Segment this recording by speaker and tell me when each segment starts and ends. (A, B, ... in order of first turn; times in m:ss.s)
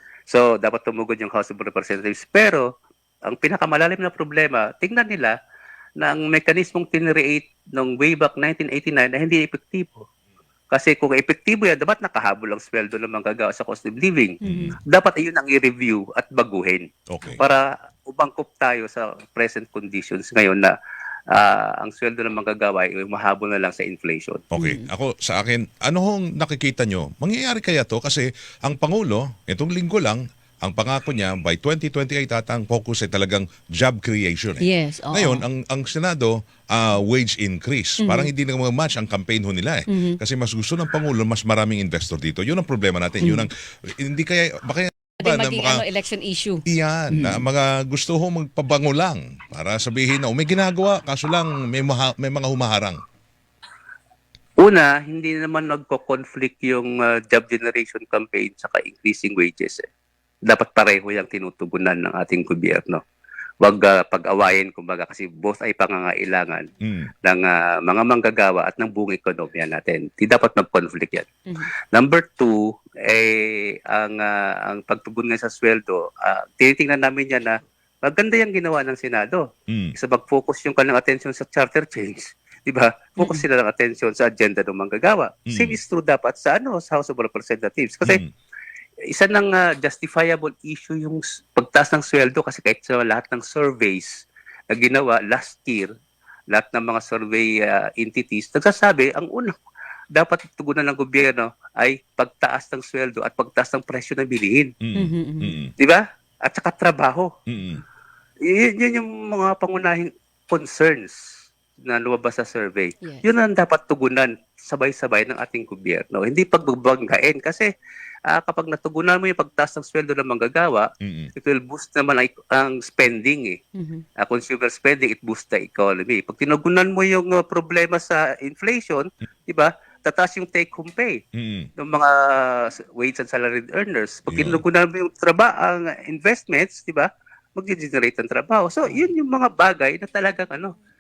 0:00.3-0:02.7 A
0:03.3-0:05.3 A
0:06.0-0:10.0 A
0:10.7-0:20.7 A
0:14.4-0:14.8 B
0:14.4-0:14.7 C
0:17.1-0:17.4 B
0:21.3-0:24.5 A
0:24.5-0:45.8 B
0:24.6-0:24.9 C
0:34.6-0:35.4 C
0:38.0-0:38.3 C
0:39.9-0:40.2 C
0:45.2-0:47.4 C
0:46.7-0:53.0 B
0:54.6-0:59.9 A
1:00.5-1:03.0 A
1:03.6-1:06.7 A
1:06.8-1:07.1 B
1:07.2-1:11.3 A
1:11.9-1:28.2 A
1:19.7-1:19.9 B
1:23.2-1:23.4 C
1:25.5-1:25.8 B
1:29.1-1:35.9 A
1:36.5-1:39.6 A
1:40.1-1:44.8 A
1:44.8-1:45.7 B
1:45.0-1:45.6 C
1:45.8-1:47.3 A
1:47.5-1:47.8 B
1:48.4-1:51.2 A
1:51.8-1:57.7 A
1:53.0-1:53.3 C
1:58.3-2:03.6 A
2:01.0-2:01.3 B
2:03.8-2:04.0 C
2:04.2-2:11.2 A
2:11.4-2:11.7 B
2:11.8-2:20.7 A
2:14.3-2:14.6 B
2:18.8-2:19.1 C